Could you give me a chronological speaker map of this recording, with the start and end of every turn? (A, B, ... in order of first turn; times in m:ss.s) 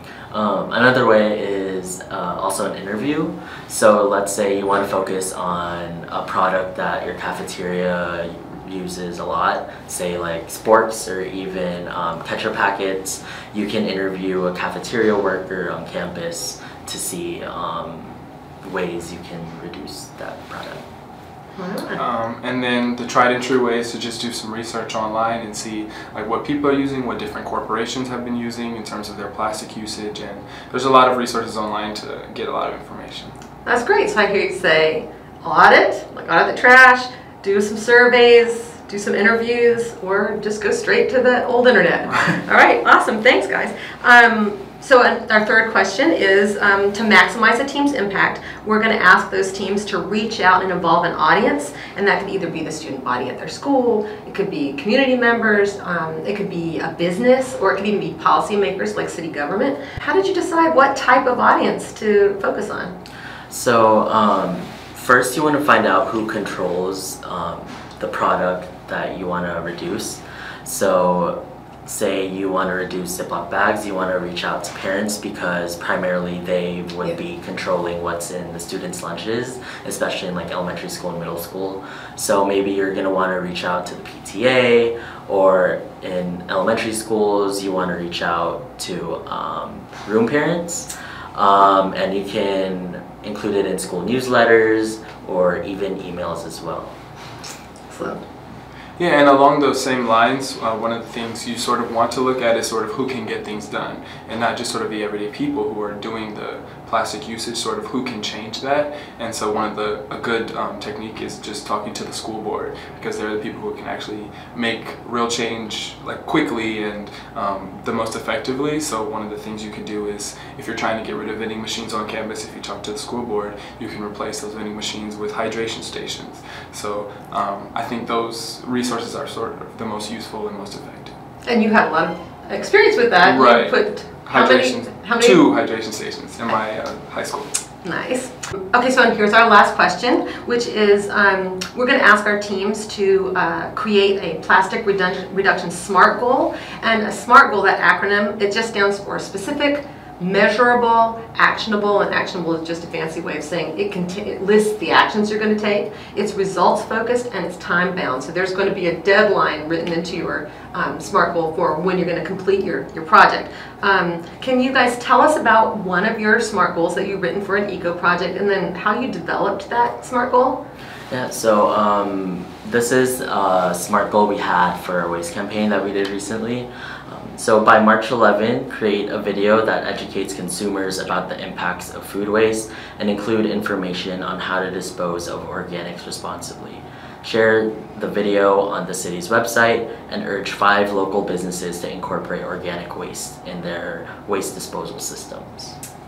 0:00.3-0:20.8 A
0:21.6-0:22.0 B
0:22.0-0:33.3 C
0:33.6-1:02.9 B
1:03.5-1:36.9 A
1:37.9-1:38.2 B
1:39.0-2:11.1 C
2:11.4-2:15.4 B
2:13.2-2:17.5 C
2:17.8-2:50.6 B
2:51.1-3:15.7 A